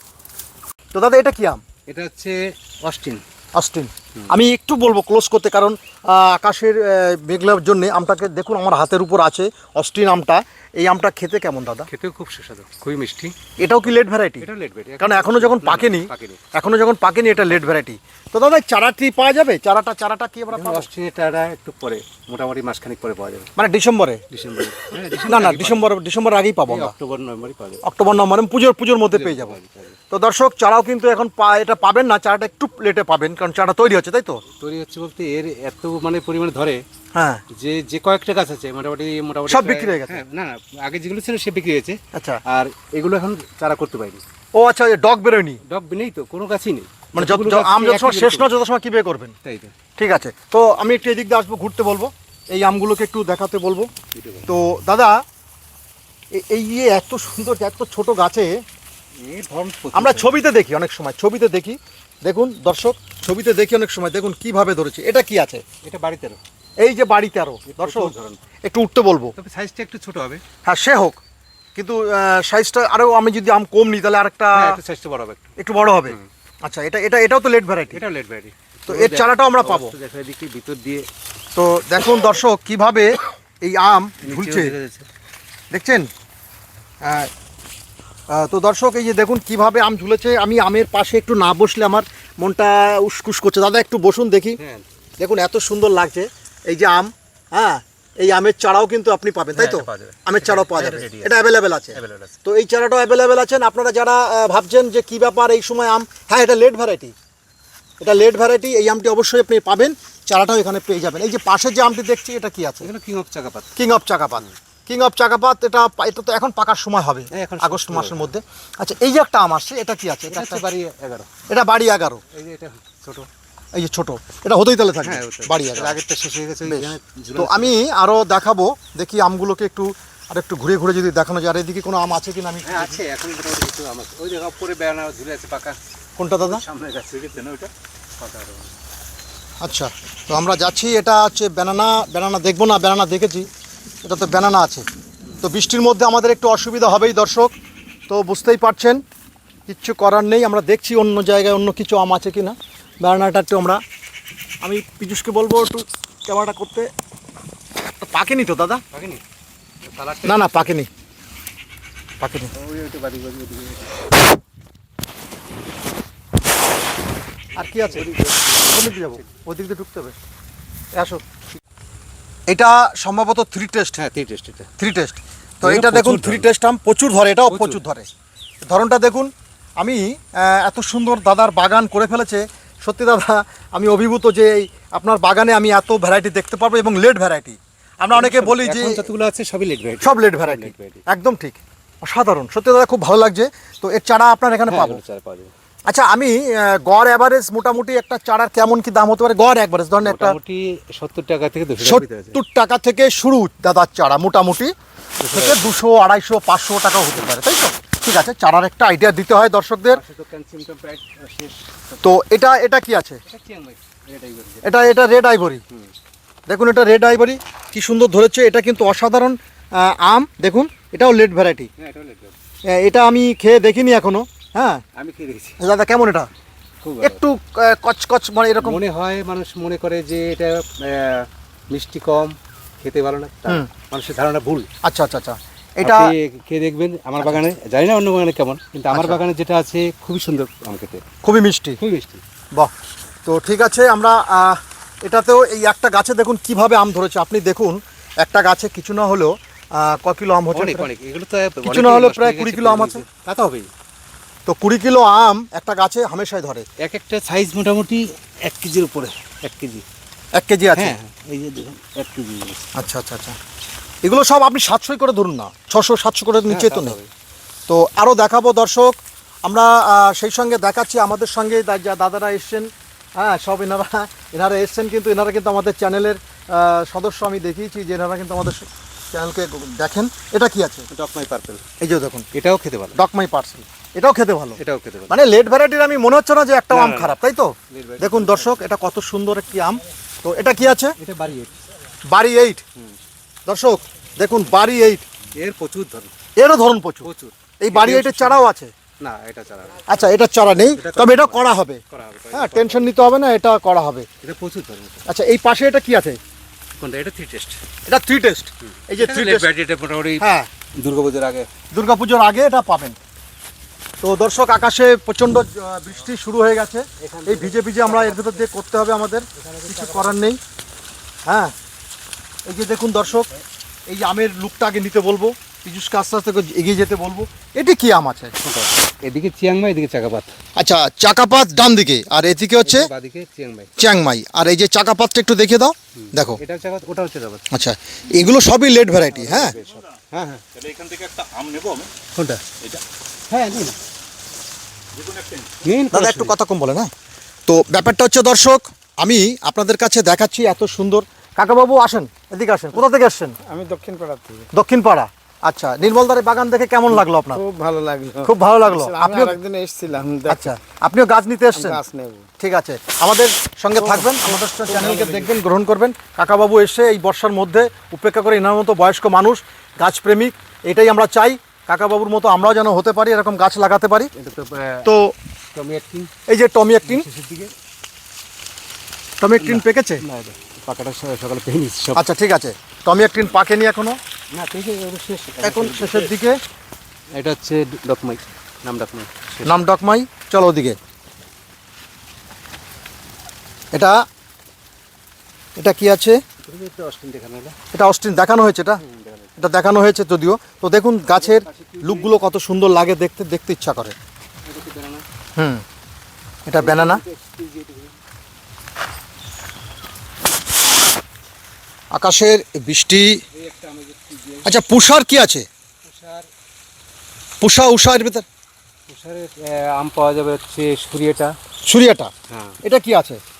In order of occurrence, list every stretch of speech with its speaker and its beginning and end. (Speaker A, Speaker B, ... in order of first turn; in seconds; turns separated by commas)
Speaker A: 0.9-1.6, Speaker B: 1.9-3.2, Speaker A: 3.5-11.9, Speaker B: 11.9-13.3, Speaker A: 13.6-14.4, Speaker B: 14.4-16.4, Speaker A: 15.0-20.9, Speaker B: 20.5-23.5, Speaker A: 23.6-24.2, Speaker B: 24.3-25.9, Speaker A: 25.2-26.9, Speaker B: 26.7-27.8, Speaker A: 27.8-29.6, Speaker B: 29.1-30.0, Speaker A: 30.1-34.4, Speaker B: 34.6-36.8, Speaker A: 37.1-37.4, Speaker B: 37.5-44.2, Speaker A: 39.5-40.2, Speaker A: 42.1-42.4, Speaker A: 44.5-45.6, Speaker B: 45.6-48.5, Speaker A: 47.1-49.3, Speaker B: 49.4-49.7, Speaker A: 50.0-53.9, Speaker B: 54.1-54.5, Speaker A: 54.5-55.2, Speaker A: 56.3-58.6, Speaker B: 59.2-60.3, Speaker A: 59.9-65.6, Speaker B: 65.8-66.4, Speaker A: 66.8-68.1, Speaker B: 67.7-68.4, Speaker A: 68.6-69.3, Speaker B: 69.3-70.4, Speaker A: 70.6-71.2, Speaker A: 71.7-74.8, Speaker B: 74.5-75.5, Speaker A: 75.6-78.0, Speaker B: 77.9-81.0, Speaker A: 78.9-79.9, Speaker A: 81.5-84.7, Speaker B: 84.2-85.1, Speaker A: 85.7-86.1, Speaker A: 87.0-87.3, Speaker A: 88.3-94.6, Speaker B: 94.6-94.8, Speaker A: 95.2-107.1, Speaker B: 99.5-101.3, Speaker B: 101.9-102.4, Speaker A: 108.0-112.9, Speaker B: 112.8-113.7, Speaker A: 113.8-120.6, Speaker B: 117.3-118.3, Speaker B: 120.3-121.3, Speaker A: 121.5-122.2, Speaker B: 122.3-123.3, Speaker A: 123.7-126.0, Speaker B: 125.0-127.7, Speaker A: 126.6-133.0, Speaker B: 132.6-135.8, Speaker A: 136.2-136.6, Speaker B: 136.4-137.6, Speaker C: 137.2-137.7, Speaker B: 138.2-138.7, Speaker A: 139.6-143.5, Speaker A: 144.0-144.8, Speaker A: 145.4-147.5, Speaker A: 148.1-149.0, Speaker A: 149.7-153.8, Speaker A: 154.6-156.9, Speaker A: 158.0-158.8, Speaker B: 158.9-159.2, Speaker B: 159.8-160.7, Speaker A: 160.2-160.9, Speaker A: 162.2-162.5, Speaker B: 162.5-163.9, Speaker A: 167.6-170.2, Speaker B: 167.8-169.3, Speaker A: 170.9-171.2, Speaker A: 172.5-174.0, Speaker B: 173.9-174.7, Speaker A: 174.8-178.1, Speaker B: 175.6-176.5, Speaker B: 177.5-177.8, Speaker A: 178.7-189.0, Speaker B: 188.1-191.0, Speaker A: 190.0-195.0, Speaker B: 194.7-195.5, Speaker A: 195.9-200.4, Speaker B: 200.0-202.4, Speaker A: 201.8-204.7, Speaker B: 205.2-205.7, Speaker A: 205.3-210.0, Speaker B: 209.9-212.1, Speaker A: 212.0-213.2, Speaker B: 213.2-214.7, Speaker A: 214.6-215.6, Speaker A: 216.5-221.7, Speaker B: 221.8-222.4, Speaker A: 222.7-224.8, Speaker B: 224.9-225.6, Speaker A: 225.6-226.3, Speaker B: 226.8-227.2, Speaker A: 227.0-228.8, Speaker B: 228.6-234.7, Speaker A: 234.8-236.1, Speaker B: 235.8-241.0, Speaker A: 238.9-239.2, Speaker A: 241.2-241.8, Speaker B: 241.8-242.2, Speaker A: 243.2-250.9, Speaker B: 250.5-253.7, Speaker A: 251.6-253.0, Speaker A: 254.4-256.6, Speaker B: 256.8-259.8, Speaker A: 260.3-260.9, Speaker B: 260.7-262.6, Speaker A: 262.7-263.4, Speaker A: 264.0-267.0, Speaker B: 266.5-267.1, Speaker A: 267.7-280.9, Speaker B: 280.9-281.6, Speaker A: 281.8-282.2, Speaker B: 282.3-283.0, Speaker A: 282.9-290.9, Speaker B: 284.6-285.1, Speaker B: 286.7-287.1, Speaker B: 287.7-288.6, Speaker B: 291.0-291.5, Speaker A: 292.1-292.6, Speaker A: 293.4-295.1, Speaker B: 295.3-296.1, Speaker A: 296.4-297.1, Speaker B: 297.0-298.4, Speaker A: 297.6-298.7, Speaker B: 299.0-299.9, Speaker A: 299.9-301.8, Speaker B: 300.8-302.9, Speaker A: 302.3-304.1, Speaker B: 304.2-305.0, Speaker A: 305.1-306.2, Speaker B: 306.8-307.6, Speaker A: 307.9-309.5, Speaker B: 308.6-310.2, Speaker A: 310.2-310.5, Speaker B: 310.8-311.5, Speaker A: 311.7-313.0, Speaker A: 314.0-320.4, Speaker B: 317.0-318.4, Speaker B: 319.4-320.2, Speaker A: 321.3-321.5, Speaker A: 322.5-323.3, Speaker A: 323.9-328.3, Speaker B: 328.4-330.3, Speaker A: 330.6-332.9, Speaker B: 332.6-333.7, Speaker A: 333.8-336.4, Speaker B: 336.0-337.4, Speaker A: 337.5-339.6, Speaker B: 339.1-340.4, Speaker C: 340.5-341.9, Speaker B: 342.1-342.5, Speaker B: 343.3-343.8, Speaker C: 344.9-345.5, Speaker B: 345.6-346.4, Speaker A: 345.9-346.9, Speaker A: 347.5-353.4, Speaker D: 353.4-354.5, Speaker A: 354.5-357.4, Speaker D: 357.4-360.5, Speaker A: 358.2-359.4, Speaker A: 360.2-361.8, Speaker D: 361.6-362.2, Speaker A: 362.4-374.1, Speaker B: 364.8-365.3, Speaker B: 374.1-374.9, Speaker A: 374.8-375.1, Speaker B: 375.5-376.1, Speaker A: 376.3-377.1, Speaker B: 376.9-377.5, Speaker A: 379.2-380.0, Speaker B: 379.4-382.0, Speaker A: 381.9-384.0, Speaker B: 384.3-386.1, Speaker A: 385.4-386.4, Speaker B: 387.1-389.6, Speaker A: 389.4-390.8, Speaker A: 393.7-394.0, Speaker A: 395.6-396.2, Speaker B: 396.4-397.5, Speaker A: 397.7-398.8, Speaker B: 398.8-399.3, Speaker A: 399.4-403.9, Speaker B: 401.1-402.2, Speaker B: 404.4-405.0, Speaker A: 405.4-405.6, Speaker A: 406.4-407.0, Speaker B: 406.5-407.9, Speaker A: 411.9-413.2, Speaker B: 413.3-414.5, Speaker A: 414.4-415.5, Speaker B: 415.8-416.3, Speaker A: 417.4-418.2, Speaker B: 418.9-421.4, Speaker A: 421.6-422.1, Speaker B: 422.3-422.6, Speaker A: 422.6-423.2